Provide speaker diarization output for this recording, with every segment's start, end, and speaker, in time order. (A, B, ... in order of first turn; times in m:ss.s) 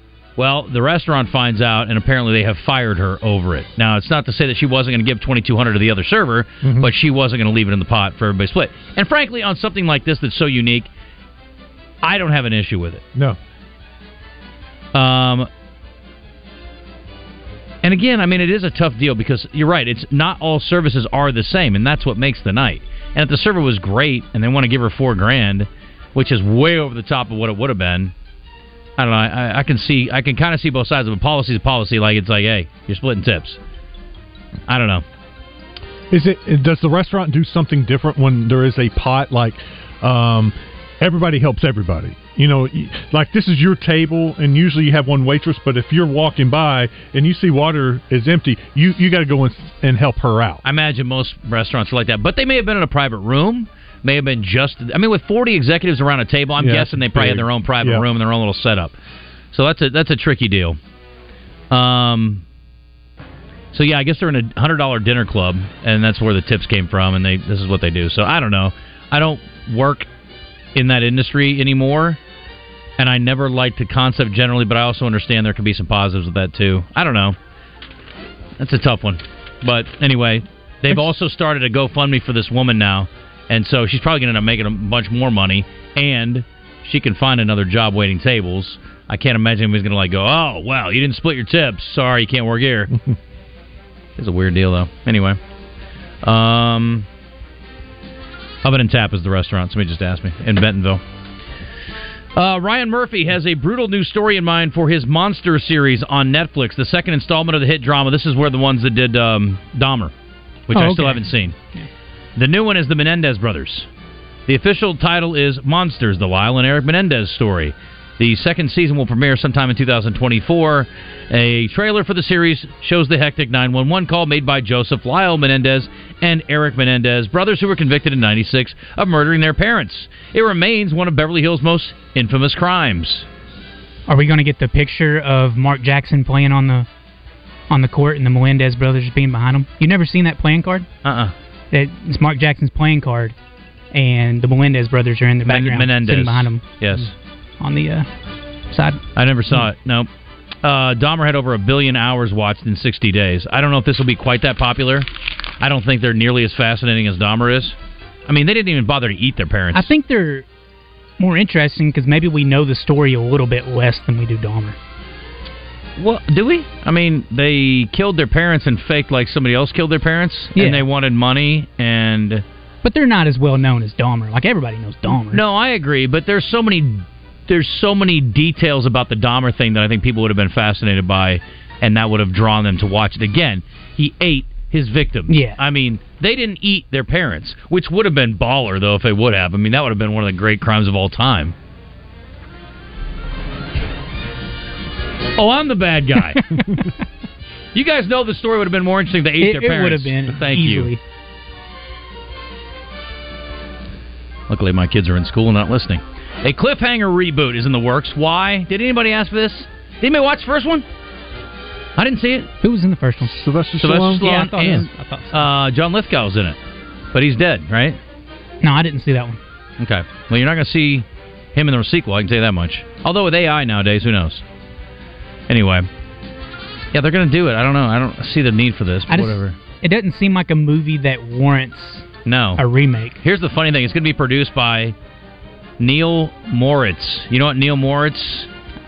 0:00.4-0:10.9 A
0:06.6-0:06.9 B
0:12.0-0:13.0 A
0:14.9-0:15.5 A
0:17.8-0:28.1 A
0:29.0-0:33.6 A
0:34.7-0:35.0 A
0:36.1-0:50.6 B
0:50.6-0:58.9 A
0:56.6-0:58.0 B
0:59.5-1:00.8 A
1:01.7-1:02.4 A
1:03.7-1:10.1 A
1:10.7-1:12.2 A
1:13.0-1:17.4 A
1:18.6-1:32.9 A
1:34.2-1:35.4 A
1:36.2-1:37.1 A
1:38.6-1:41.0 A
1:42.3-1:50.1 A
1:50.7-1:51.5 A
1:50.7-1:51.9 C
1:52.4-1:53.9 A
1:54.5-2:13.2 A
2:14.1-2:16.9 C
2:17.7-2:20.9 C
2:21.0-2:21.3 A
2:21.7-2:23.3 C
2:23.9-2:26.6 C
2:25.4-2:27.1 A
2:27.6-2:28.1 C
2:28.7-2:29.0 C
2:29.1-2:30.1 A
2:30.6-2:35.1 A
2:35.6-2:37.8 A
2:38.3-2:39.9 A
2:39.7-2:40.4 C
2:41.2-2:44.8 C
2:46.0-2:52.4 A
2:50.5-2:50.8 C
2:52.8-2:55.4 C
2:55.0-3:11.5 A
3:05.3-3:05.6 C
3:15.4-3:16.5 A
3:16.3-3:16.8 C
3:17.7-3:20.9 A
3:19.4-3:21.0 C
3:24.5-3:30.8 A
3:32.0-3:32.5 A
3:32.6-3:33.3 C
3:33.3-3:34.8 B
3:33.8-3:36.6 A
3:34.1-3:35.5 C
3:37.1-3:38.0 A
3:38.6-3:39.4 C
3:39.8-3:44.4 A
3:45.5-3:45.9 A
3:46.9-3:49.6 A
3:49.1-3:52.0 C
3:52.2-3:52.6 A
3:52.6-3:53.2 C
3:53.2-3:54.9 A
3:55.8-3:58.5 A